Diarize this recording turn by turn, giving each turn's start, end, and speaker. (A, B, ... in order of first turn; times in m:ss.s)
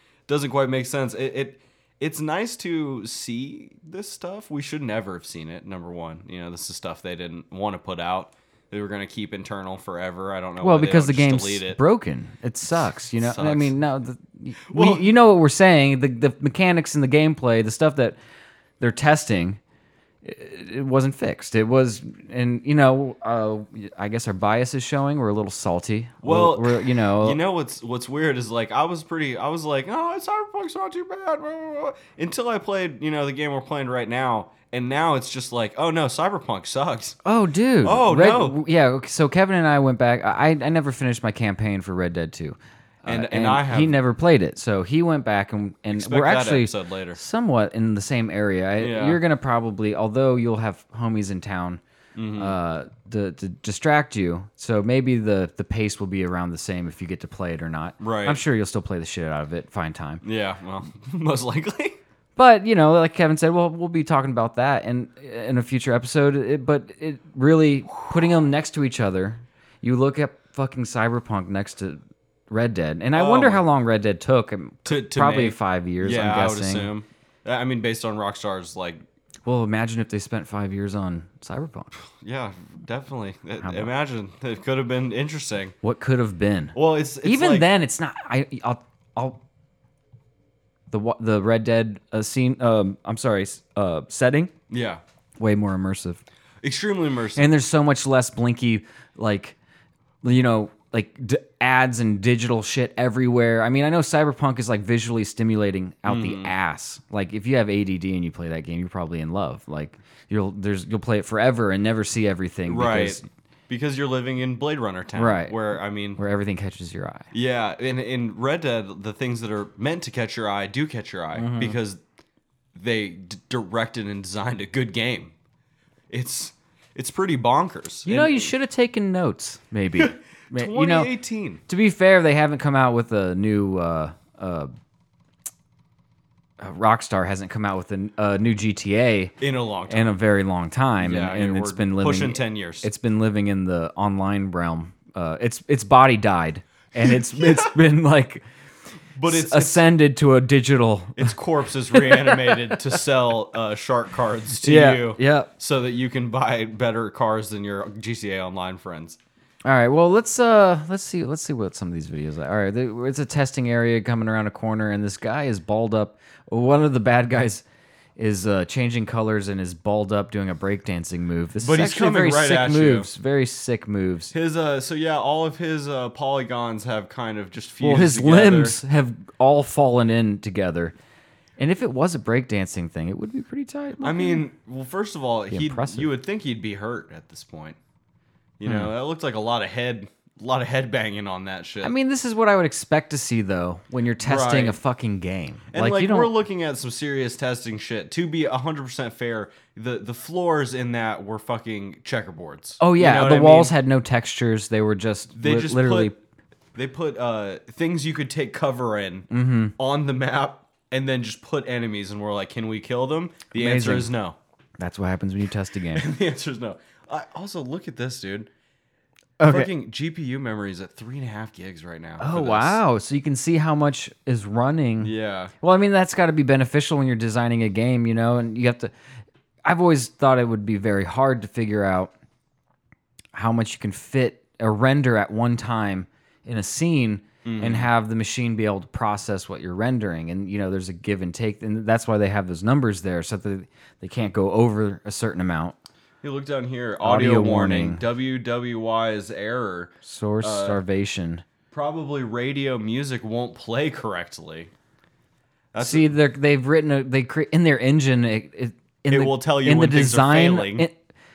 0:00.3-0:11.8 A
0:10.6-0:18.2 B
0:12.7-0:13.7 A
0:14.7-0:15.1 A
0:18.8-0:19.6 B
0:20.2-0:27.4 B
0:26.2-0:37.2 A
0:37.2-0:51.8 B
0:37.8-0:38.6 A
0:43.0-0:44.0 A
0:45.9-0:47.2 A
0:48.8-0:49.2 A
0:52.2-0:52.6 A
0:52.4-1:00.2 B
0:58.0-0:58.4 A
1:00.2-1:02.0 A
1:02.4-1:16.9 B
1:13.1-1:13.6 A
1:14.8-1:19.0 A
1:19.4-1:21.9 B
1:22.2-1:25.8 A
1:23.6-1:23.9 B
1:25.8-1:29.4 B
1:26.7-1:27.7 A
1:30.9-1:34.5 B
1:34.7-1:35.0 A
1:35.4-1:36.2 B
1:36.6-1:37.5 A
1:37.4-1:39.6 B
1:40.2-1:53.2 B
1:46.0-1:46.5 A
1:52.7-1:56.2 A
1:55.1-1:55.6 B
1:56.2-1:57.3 B
1:57.3-2:02.0 A
2:01.3-2:01.8 B
2:02.7-2:05.3 A
2:06.1-2:08.5 A
2:08.0-2:11.1 B
2:10.0-2:11.6 A
2:11.6-2:14.7 B
2:16.6-2:19.3 B
2:19.4-2:20.2 A
2:19.9-2:28.4 B
2:21.0-2:22.9 A
2:27.0-2:27.7 A
2:29.2-2:29.8 A
2:29.2-2:31.3 B
2:31.2-2:39.2 A
2:31.9-2:32.6 B
2:34.6-2:35.5 B
2:39.6-2:47.6 B
2:48.2-2:54.3 B
2:51.6-2:53.1 A
2:54.3-2:58.8 A
2:57.8-3:00.9 B
3:01.6-3:04.4 B
3:04.0-3:07.8 A
3:05.5-3:06.1 B
3:08.6-3:11.9 A
3:08.6-3:08.9 B
3:11.8-3:16.3 B
3:14.2-3:14.8 A
3:15.7-3:23.7 A
3:22.8-3:26.1 B
3:25.3-3:26.1 A
3:26.7-3:34.4 A
3:29.3-3:29.7 B
3:33.5-3:34.1 B
3:34.8-3:36.1 B
3:35.9-3:38.5 A
3:39.4-3:39.7 B
3:39.5-3:42.8 A
3:42.2-3:48.9 B
3:45.0-3:45.5 A
3:49.6-3:52.1 B
3:53.3-4:05.8 B
3:57.4-3:57.9 A
4:06.2-4:10.8 A
4:07.0-4:08.0 B
4:10.0-4:11.4 B
4:11.7-4:14.7 A
4:15.7-4:16.1 A
4:15.8-4:20.9 B
4:19.1-4:20.9 A